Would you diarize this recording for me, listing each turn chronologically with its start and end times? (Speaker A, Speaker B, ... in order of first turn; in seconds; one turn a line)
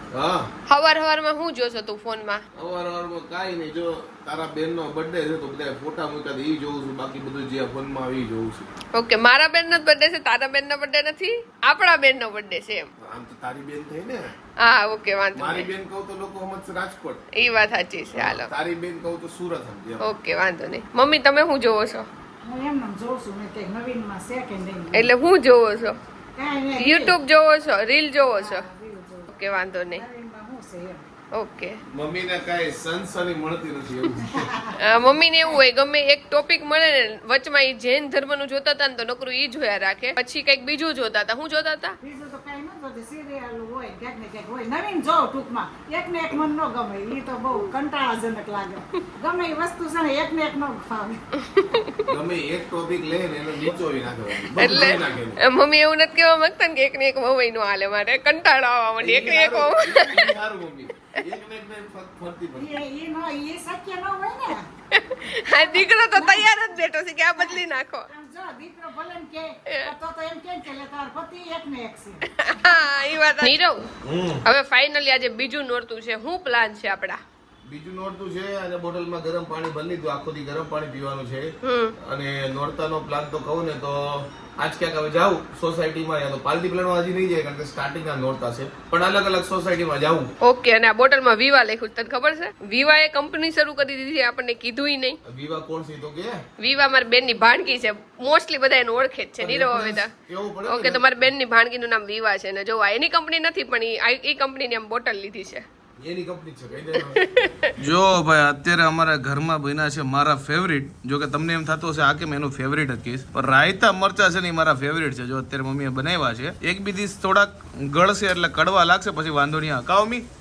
Speaker A: 0.1-0.5
Speaker B: 0.7-2.4
Speaker A: 2.5-8.7
Speaker B: 8.9-12.9
Speaker A: 13.0-14.3
Speaker B: 14.6-15.7
Speaker A: 15.3-17.2
Speaker B: 17.3-18.5
Speaker A: 18.1-20.0
Speaker B: 20.0-22.1
Speaker C: 22.4-25.1
Speaker B: 24.9-26.0
Speaker C: 26.4-27.2
Speaker B: 26.8-28.6
Speaker C: 28.3-29.3
Speaker B: 29.3-30.0
Speaker C: 29.9-31.1
Speaker B: 31.3-31.8
Speaker A: 31.9-34.5
Speaker C: 34.3-34.9
Speaker B: 34.8-42.0
Speaker C: 42.0-51.2
Speaker B: 51.4-52.0
Speaker A: 52.1-55.4
Speaker B: 54.6-60.3
Speaker A: 59.0-62.8
Speaker C: 62.5-64.7
Speaker B: 64.9-68.1
Speaker C: 65.5-66.6
Speaker C: 68.1-72.4
Speaker B: 72.3-73.9
Speaker A: 74.0-74.4
Speaker B: 74.4-77.2
Speaker A: 77.7-90.3
Speaker B: 81.6-81.9
Speaker B: 90.4-95.2
Speaker A: 95.2-96.4
Speaker B: 96.6-100.1
Speaker A: 99.4-101.0
Speaker B: 100.6-105.6
Speaker A: 106.0-107.2
Speaker B: 107.0-107.7
Speaker A: 107.8-120.2